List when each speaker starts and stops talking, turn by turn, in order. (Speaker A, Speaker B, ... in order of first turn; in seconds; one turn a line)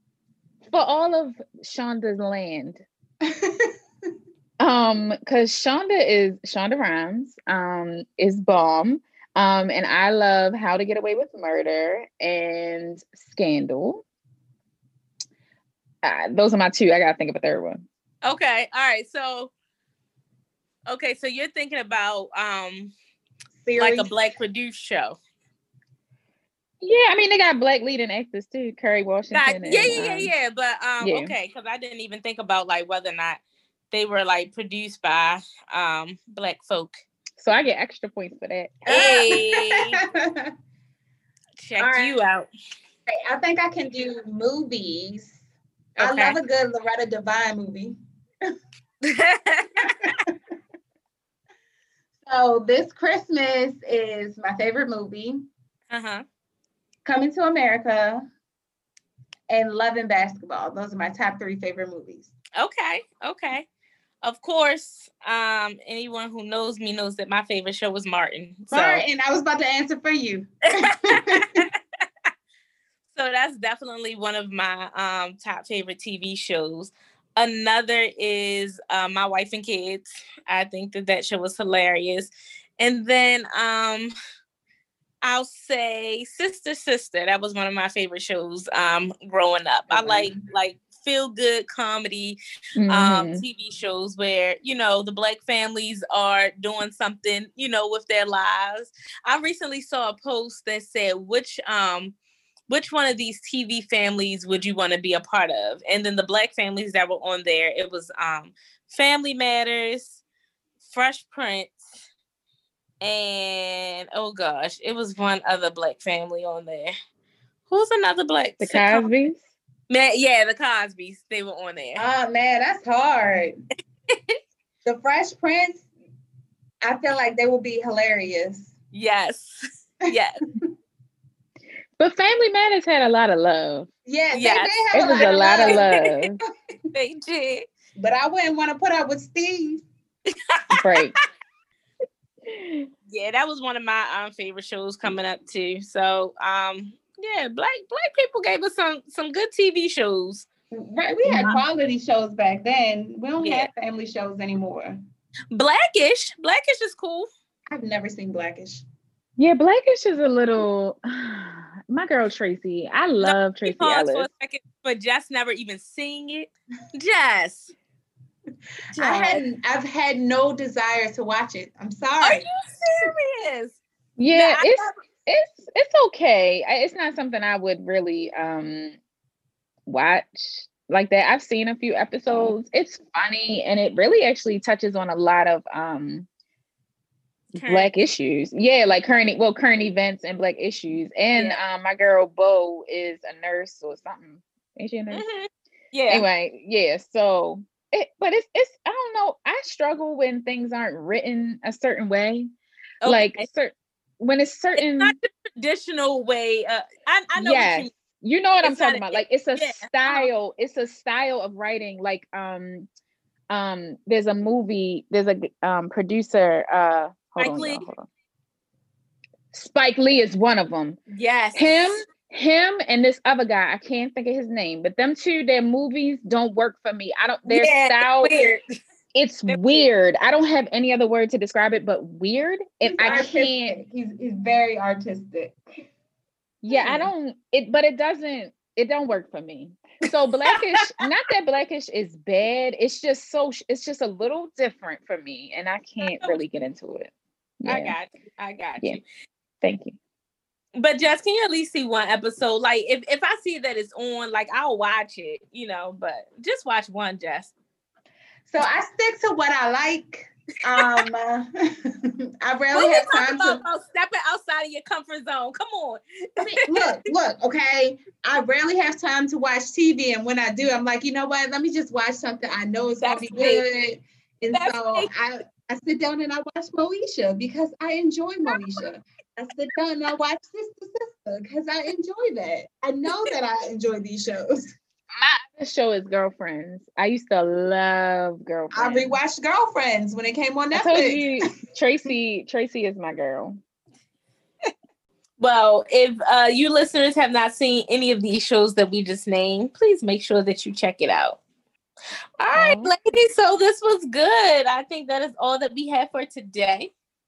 Speaker A: 0.7-2.8
Speaker B: 3.2-3.7
Speaker A: 4.6-14.0
Speaker A: 16.0-17.8
Speaker C: 18.2-19.5
Speaker C: 20.9-22.9
Speaker B: 23.6-24.1
Speaker C: 23.8-25.2
Speaker A: 26.8-30.3
Speaker C: 29.3-37.0
Speaker A: 31.0-31.3
Speaker A: 37.4-38.9
Speaker C: 38.9-40.0
Speaker B: 38.9-40.5
Speaker C: 41.6-42.5
Speaker B: 41.8-42.1
Speaker B: 43.1-45.4
Speaker C: 46.0-46.4
Speaker B: 46.0-48.0
Speaker C: 49.0-50.2
Speaker B: 49.8-50.4
Speaker B: 52.2-55.4
Speaker C: 55.9-56.2
Speaker B: 57.0-58.2
Speaker B: 59.5-62.3
Speaker C: 62.6-63.7
Speaker C: 64.2-69.0
Speaker B: 68.7-71.7
Speaker C: 70.8-71.7
Speaker C: 73.1-84.1
Speaker C: 85.2-102.1
Speaker B: 89.9-90.4
Speaker A: 92.8-93.4
Speaker C: 102.7-110.2
Speaker C: 110.8-111.8
Speaker C: 113.0-116.9
Speaker C: 117.7-119.1
Speaker A: 118.6-119.4
Speaker C: 119.9-122.0
Speaker B: 122.0-123.6
Speaker C: 124.1-124.4
Speaker B: 124.8-125.9
Speaker B: 126.8-128.7
Speaker C: 128.9-130.4
Speaker A: 132.0-133.9
Speaker B: 134.1-135.9
Speaker C: 134.3-135.9
Speaker A: 134.9-136.4
Speaker C: 136.9-137.7
Speaker B: 137.9-139.8
Speaker C: 140.5-141.0
Speaker A: 140.8-141.1
Speaker A: 142.4-142.9
Speaker C: 143.1-150.5
Speaker B: 150.7-155.0
Speaker A: 151.2-151.6
Speaker C: 153.4-153.7
Speaker C: 155.5-157.3
Speaker B: 157.7-158.8
Speaker A: 159.4-164.3
Speaker C: 163.2-167.7
Speaker C: 168.9-169.4
Speaker B: 169.0-172.4
Speaker C: 172.2-173.8
Speaker A: 174.2-179.0
Speaker C: 174.3-174.9
Speaker A: 179.9-186.3
Speaker C: 187.5-187.9
Speaker A: 187.6-195.2
Speaker C: 195.1-196.3
Speaker A: 196.1-202.5
Speaker C: 203.0-203.5
Speaker A: 203.0-205.1
Speaker C: 204.8-207.9
Speaker A: 207.3-212.9
Speaker C: 208.6-210.3
Speaker A: 213.5-218.1
Speaker C: 217.4-217.8
Speaker A: 219.5-221.0
Speaker C: 221.1-222.0
Speaker A: 221.5-228.3
Speaker C: 227.4-228.6
Speaker A: 229.1-233.7
Speaker C: 229.5-229.8
Speaker B: 232.8-235.6
Speaker A: 236.6-247.9
Speaker C: 236.7-237.1
Speaker C: 246.0-246.4
Speaker C: 247.7-249.0
Speaker A: 249.6-250.0
Speaker C: 250.8-257.5
Speaker B: 258.5-263.6
Speaker C: 262.7-267.0
Speaker B: 266.4-284.7
Speaker C: 273.0-273.6
Speaker C: 274.5-275.1
Speaker A: 285.2-289.2
Speaker B: 288.7-291.3
Speaker A: 290.7-293.6
Speaker C: 295.4-301.4
Speaker C: 302.4-306.9
Speaker A: 302.5-302.9